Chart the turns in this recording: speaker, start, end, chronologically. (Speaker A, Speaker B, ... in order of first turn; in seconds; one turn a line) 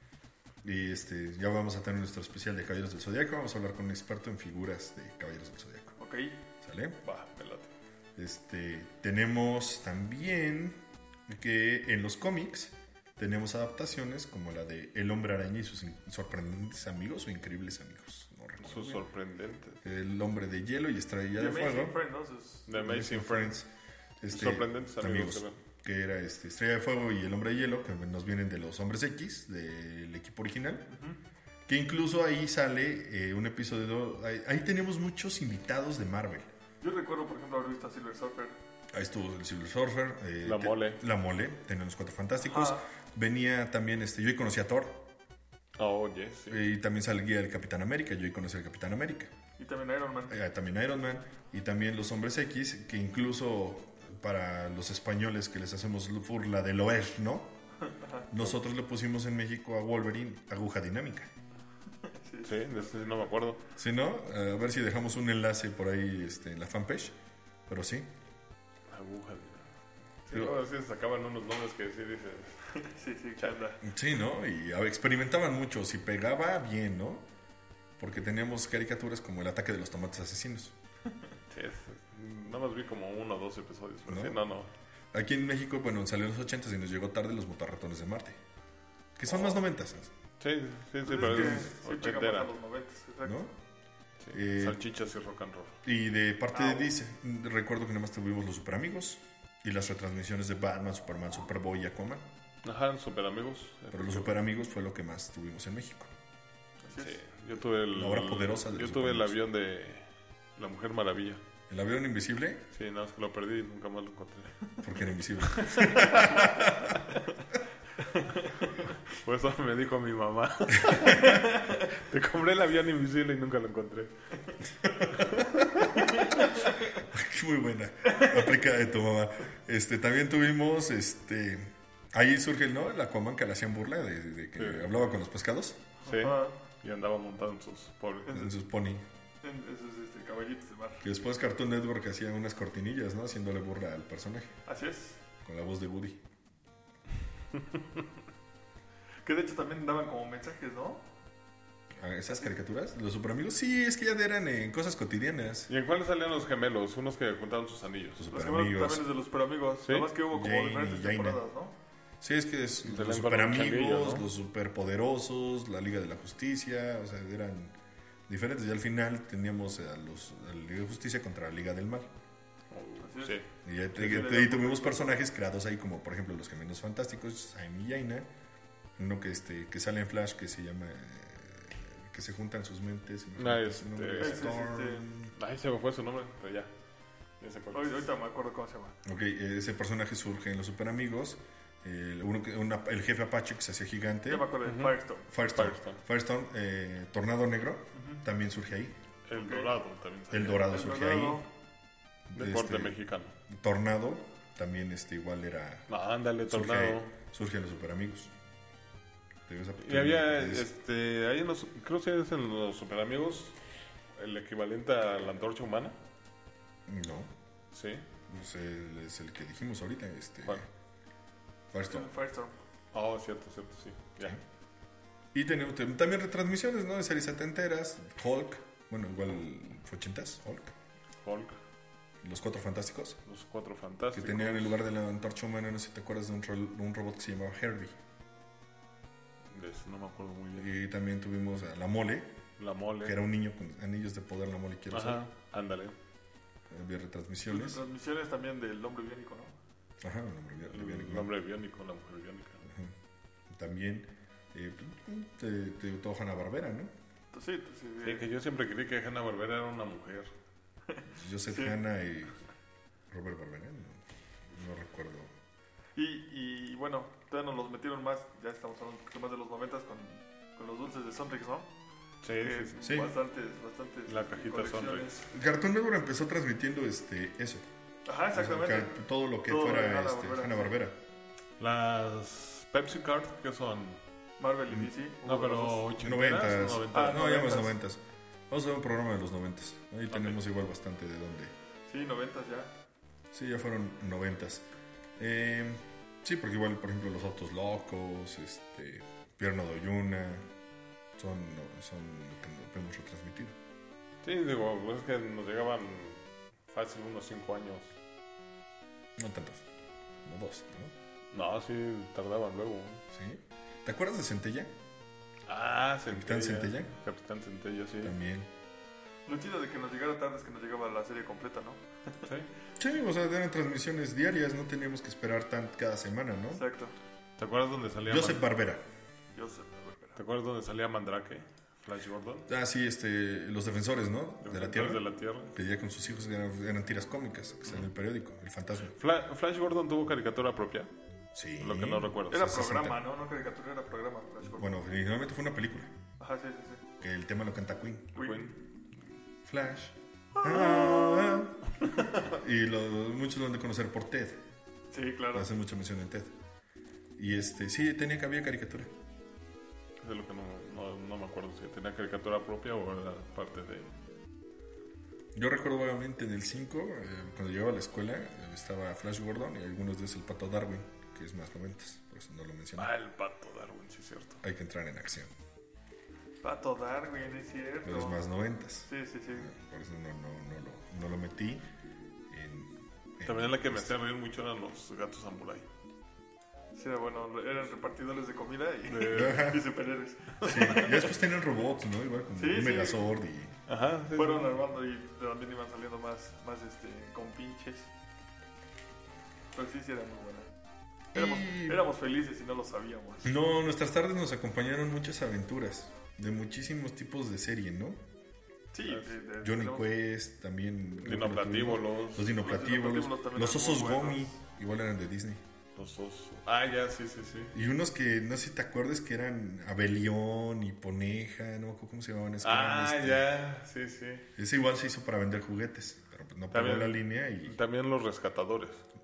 Speaker A: 0.6-6.0
Speaker B: 6.0-6.4
Speaker A: 6.6-7.0
Speaker C: 7.0-7.7
Speaker A: 8.2-19.0
Speaker C: 18.6-19.8
Speaker A: 19.8-22.0
Speaker B: 21.4-22.7
Speaker C: 22.7-23.6
Speaker A: 22.8-23.7
Speaker A: 24.2-30.9
Speaker C: 24.3-25.6
Speaker B: 30.9-31.2
Speaker A: 31.7-36.5
Speaker B: 36.8-38.5
Speaker A: 38.9-45.0
Speaker C: 40.4-41.0
Speaker B: 42.4-42.8
Speaker C: 45.8-46.6
Speaker A: 46.5-49.3
Speaker B: 49.6-50.4
Speaker A: 50.3-57.5
Speaker B: 57.8-58.3
Speaker A: 58.3-61.3
Speaker B: 62.0-63.3
Speaker C: 62.4-63.6
Speaker A: 63.8-67.2
Speaker A: 67.7-68.1
Speaker C: 68.9-69.7
Speaker C: 70.3-72.6
Speaker A: 70.3-70.6
Speaker B: 72.8-73.8
Speaker A: 73.8-77.3
Speaker A: 78.0-80.7
Speaker C: 81.5-84.7
Speaker A: 84.1-84.4
Speaker A: 85.1-88.4
Speaker A: 89.2-90.1
Speaker C: 89.3-89.6
Speaker C: 90.4-92.5
Speaker B: 91.0-93.5
Speaker A: 91.2-91.7
Speaker A: 93.2-93.5
Speaker C: 94.2-95.8
Speaker A: 94.3-94.8
Speaker A: 95.8-102.3
Speaker B: 96.5-96.9
Speaker C: 102.6-104.3
Speaker A: 103.9-106.1
Speaker B: 106.8-107.2
Speaker C: 107.0-111.4
Speaker A: 107.9-109.4
Speaker A: 111.7-112.6
Speaker C: 112.7-114.6
Speaker A: 114.8-117.0
Speaker C: 115.4-116.4
Speaker C: 119.1-124.1
Speaker A: 120.9-121.2
Speaker B: 121.1-121.8
Speaker A: 125.4-125.8
Speaker B: 126.0-126.5
Speaker A: 127.0-135.8
Speaker B: 128.1-128.4
Speaker C: 134.6-135.2
Speaker C: 136.0-138.4
Speaker B: 136.1-136.5
Speaker A: 138.3-139.0
Speaker B: 139.4-141.1
Speaker A: 141.0-144.6
Speaker B: 144.7-145.2
Speaker A: 145.4-146.2
Speaker B: 149.2-151.1
Speaker A: 152.0-155.7
Speaker C: 155.7-158.2
Speaker A: 158.2-159.1
Speaker B: 158.3-161.7
Speaker C: 159.8-160.1
Speaker A: 160.3-161.4
Speaker A: 162.2-167.8
Speaker C: 162.8-164.3
Speaker A: 168.3-172.1
Speaker C: 172.7-173.5
Speaker B: 173.0-173.4
Speaker A: 173.6-178.3
Speaker B: 173.9-175.1
Speaker A: 179.0-185.3
Speaker C: 183.4-184.5
Speaker B: 184.2-185.1
Speaker C: 185.3-186.7
Speaker C: 187.4-188.1
Speaker B: 187.7-189.0
Speaker A: 189.1-194.5
Speaker B: 194.3-195.3
Speaker C: 194.6-196.0
Speaker A: 195.3-199.0
Speaker B: 197.9-198.2
Speaker C: 199.3-200.7
Speaker B: 199.3-199.7
Speaker A: 200.3-201.4
Speaker B: 200.6-201.5
Speaker A: 202.3-203.0
Speaker C: 202.3-203.3
Speaker A: 203.5-205.9
Speaker C: 205.9-207.1
Speaker A: 206.5-208.3
Speaker A: 209.5-210.7
Speaker C: 209.8-213.6
Speaker C: 214.2-216.0
Speaker A: 216.9-217.3
Speaker C: 217.7-218.0
Speaker A: 218.3-220.7
Speaker A: 221.7-222.1
Speaker B: 221.8-222.6
Speaker C: 222.9-224.4
Speaker A: 225.3-230.7
Speaker C: 231.2-231.6
Speaker A: 232.2-233.2
Speaker C: 233.3-234.8
Speaker A: 234.1-238.0
Speaker C: 239.5-240.7
Speaker A: 240.6-242.4
Speaker C: 242.6-243.2
Speaker A: 243.0-245.2
Speaker C: 244.9-246.0
Speaker A: 246.7-247.8
Speaker B: 247.5-249.6
Speaker A: 250.0-251.3
Speaker C: 250.7-252.7
Speaker A: 252.7-252.9
Speaker A: 253.5-256.9
Speaker B: 257.3-258.3
Speaker C: 258.0-260.3
Speaker B: 260.9-261.8
Speaker A: 261.1-262.4
Speaker A: 263.1-265.3
Speaker B: 266.0-271.7
Speaker C: 272.2-272.8
Speaker B: 272.4-275.3
Speaker A: 272.8-273.1
Speaker C: 274.1-275.2
Speaker A: 275.3-277.6
Speaker B: 278.1-280.8
Speaker A: 278.3-281.0
Speaker C: 281.6-284.0
Speaker B: 284.4-285.9
Speaker C: 285.2-287.3
Speaker A: 286.0-291.5
Speaker B: 286.9-287.8
Speaker C: 290.1-290.4
Speaker B: 291.9-292.7
Speaker A: 293.3-294.7
Speaker A: 295.2-300.5
Speaker A: 301.2-303.6
Speaker C: 304.2-308.0
Speaker A: 309.2-309.7
Speaker A: 310.2-310.9
Speaker C: 311.3-313.0
Speaker A: 313.1-314.7
Speaker C: 315.5-318.2
Speaker A: 316.1-316.9
Speaker A: 318.0-318.5
Speaker B: 319.3-321.8
Speaker A: 322.8-326.6
Speaker B: 326.5-326.9
Speaker C: 327.4-328.4
Speaker A: 328.1-328.8
Speaker B: 329.3-330.2
Speaker C: 330.2-332.5
Speaker A: 332.5-339.0
Speaker C: 334.4-335.5
Speaker C: 339.0-340.9
Speaker A: 341.3-343.0
Speaker C: 341.6-342.5
Speaker B: 342.3-344.8
Speaker A: 344.6-345.9
Speaker B: 346.2-346.8
Speaker A: 347.0-348.1
Speaker B: 348.1-348.5
Speaker C: 348.1-348.6
Speaker A: 349.4-351.6
Speaker B: 350.4-351.5
Speaker A: 352.2-354.4
Speaker B: 354.9-355.5
Speaker A: 355.3-356.3
Speaker A: 357.2-358.9
Speaker C: 360.0-363.9
Speaker A: 365.4-372.9
Speaker C: 372.8-374.4
Speaker A: 374.4-375.3
Speaker B: 376.4-378.2
Speaker A: 377.8-381.7
Speaker B: 378.9-379.5
Speaker A: 382.3-383.9
Speaker C: 383.2-385.7
Speaker B: 386.7-391.0
Speaker C: 388.9-389.5
Speaker A: 389.1-389.6
Speaker C: 390.4-391.0
Speaker A: 390.4-393.6
Speaker B: 392.4-393.0
Speaker C: 393.7-394.6
Speaker B: 394.1-397.9
Speaker B: 399.5-400.5
Speaker A: 401.1-401.8
Speaker B: 401.1-403.4
Speaker A: 403.2-408.0
Speaker B: 408.7-409.9
Speaker C: 408.9-409.1
Speaker A: 409.4-415.4
Speaker C: 411.0-412.3
Speaker B: 412.3-414.3
Speaker C: 415.8-417.5
Speaker A: 417.5-423.3
Speaker C: 422.4-424.3
Speaker A: 424.4-427.6
Speaker C: 426.5-428.9